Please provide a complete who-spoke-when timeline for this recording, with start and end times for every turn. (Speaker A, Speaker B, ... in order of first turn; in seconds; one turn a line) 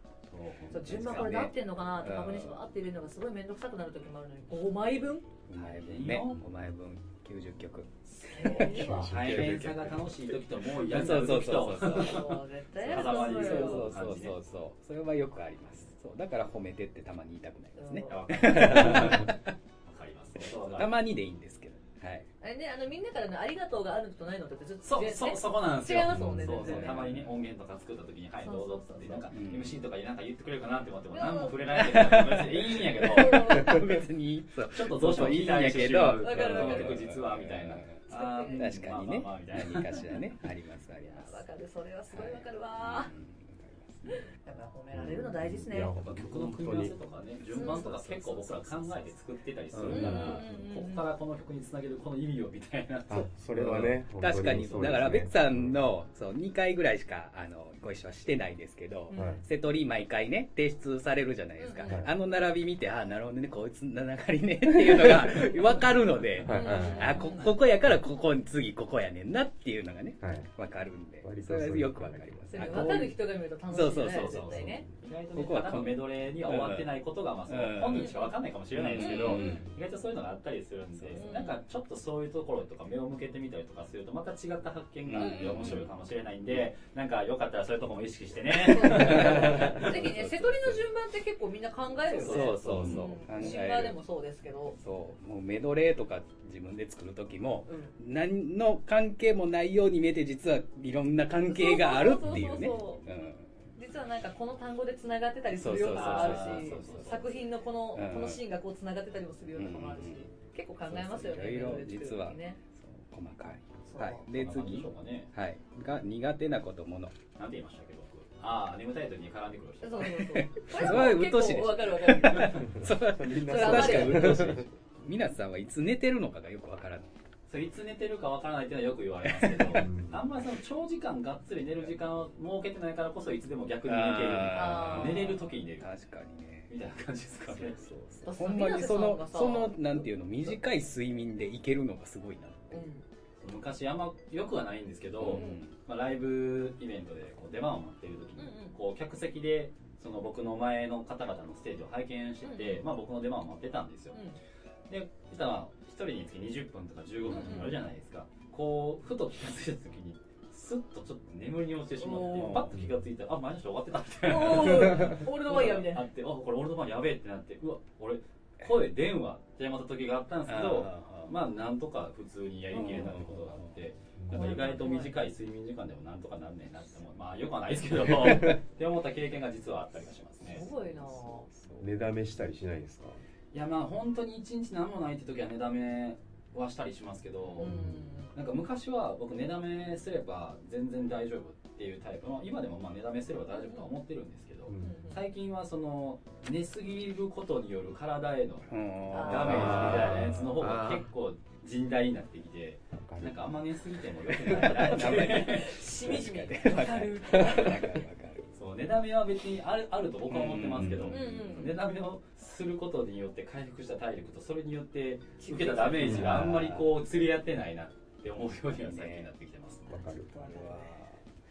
Speaker A: 0.3-1.3
Speaker B: 0.7-5.3
Speaker C: 0.7-2.6
Speaker C: 5.5-10.0
Speaker A: 5.5-6.4
Speaker B: 8.2-9.1
Speaker A: 8.3-14.4
Speaker D: 8.6-9.8
Speaker C: 10.7-12.3
Speaker B: 11.9-13.9
Speaker C: 12.8-19.5
Speaker B: 17.8-18.1
Speaker A: 18.1-21.0
Speaker C: 20.8-22.3
Speaker B: 22.4-27.0
Speaker A: 24.9-33.8
Speaker C: 26.1-27.3
Speaker B: 28.4-29.3
Speaker C: 29.3-29.8
Speaker B: 31.1-32.2
Speaker C: 31.8-38.0
Speaker B: 33.0-34.0
Speaker A: 34.7-40.0
Speaker B: 36.2-37.0
Speaker B: 38.1-38.7
Speaker C: 38.5-41.4
Speaker B: 41.0-43.1
Speaker C: 42.1-44.3
Speaker B: 44.1-45.9
Speaker D: 44.9-47.0
Speaker A: 46.0-53.3
Speaker B: 47.5-47.9
Speaker C: 47.6-48.6
Speaker C: 49.7-50.5
Speaker D: 49.9-50.2
Speaker B: 49.9-51.1
Speaker D: 53.1-55.8
Speaker C: 53.6-73.2
Speaker B: 59.1-59.4
Speaker D: 59.2-59.4
Speaker B: 61.6-62.0
Speaker D: 64.9-65.3
Speaker D: 66.4-67.2
Speaker B: 66.5-67.5
Speaker D: 70.2-70.5
Speaker D: 71.2-73.1
Speaker B: 72.5-74.8
Speaker C: 73.7-74.5
Speaker A: 74.0-90.1
Speaker D: 74.5-74.9
Speaker C: 75.3-76.9
Speaker C: 77.5-78.1
Speaker B: 78.0-78.3
Speaker C: 78.7-79.7
Speaker B: 79.0-79.6
Speaker C: 81.0-81.3
Speaker B: 81.2-81.6
Speaker C: 85.1-85.9
Speaker B: 85.2-85.9
Speaker B: 88.6-94.8
Speaker C: 88.8-90.8
Speaker A: 92.1-93.6
Speaker C: 92.1-94.0
Speaker C: 94.8-103.5
Speaker B: 97.7-97.9
Speaker B: 101.5-103.0
Speaker B: 103.8-112.6
Speaker C: 105.5-107.3
Speaker A: 105.9-107.4
Speaker C: 107.9-108.4
Speaker C: 109.5-110.3
Speaker C: 110.9-117.2
Speaker B: 113.8-114.2
Speaker A: 114.3-115.3
Speaker A: 117.3-120.2
Speaker B: 119.8-122.7
Speaker C: 120.2-127.1
Speaker A: 120.8-121.1
Speaker D: 122.7-124.7
Speaker B: 123.3-124.5
Speaker A: 127.5-135.9
Speaker C: 129.3-129.9
Speaker D: 129.8-130.2
Speaker C: 133.9-136.7
Speaker B: 134.5-135.4
Speaker A: 136.7-137.9
Speaker C: 137.6-142.8
Speaker B: 138.2-140.1
Speaker B: 142.7-143.0
Speaker A: 143.4-154.2
Speaker C: 145.2-145.7
Speaker B: 145.3-145.6
Speaker B: 148.4-148.7
Speaker B: 152.4-152.8
Speaker B: 154.1-154.4
Speaker A: 154.9-180.7
Speaker B: 157.3-157.8
Speaker B: 162.0-162.7
Speaker C: 162.3-162.7
Speaker B: 164.2-166.1
Speaker C: 170.5-171.3
Speaker B: 172.7-173.2
Speaker C: 172.8-173.7
Speaker B: 174.3-175.2
Speaker B: 180.4-181.5
Speaker C: 181.1-181.9
Speaker D: 181.8-183.2
Speaker A: 183.5-187.7
Speaker B: 187.6-188.3
Speaker D: 187.6-188.1
Speaker A: 188.3-205.8
Speaker B: 193.5-193.9
Speaker D: 194.7-195.0
Speaker B: 194.8-195.2
Speaker C: 198.7-201.1
Speaker B: 199.1-200.1
Speaker D: 199.4-200.5
Speaker D: 203.0-203.4
Speaker C: 204.4-208.5
Speaker B: 204.7-208.0
Speaker A: 208.5-220.1
Speaker C: 210.3-211.6
Speaker B: 211.1-211.8
Speaker B: 215.4-216.3
Speaker D: 216.0-216.5
Speaker C: 216.1-216.9
Speaker C: 218.8-219.3
Speaker D: 219.9-220.7
Speaker C: 220.4-221.2
Speaker B: 220.4-220.8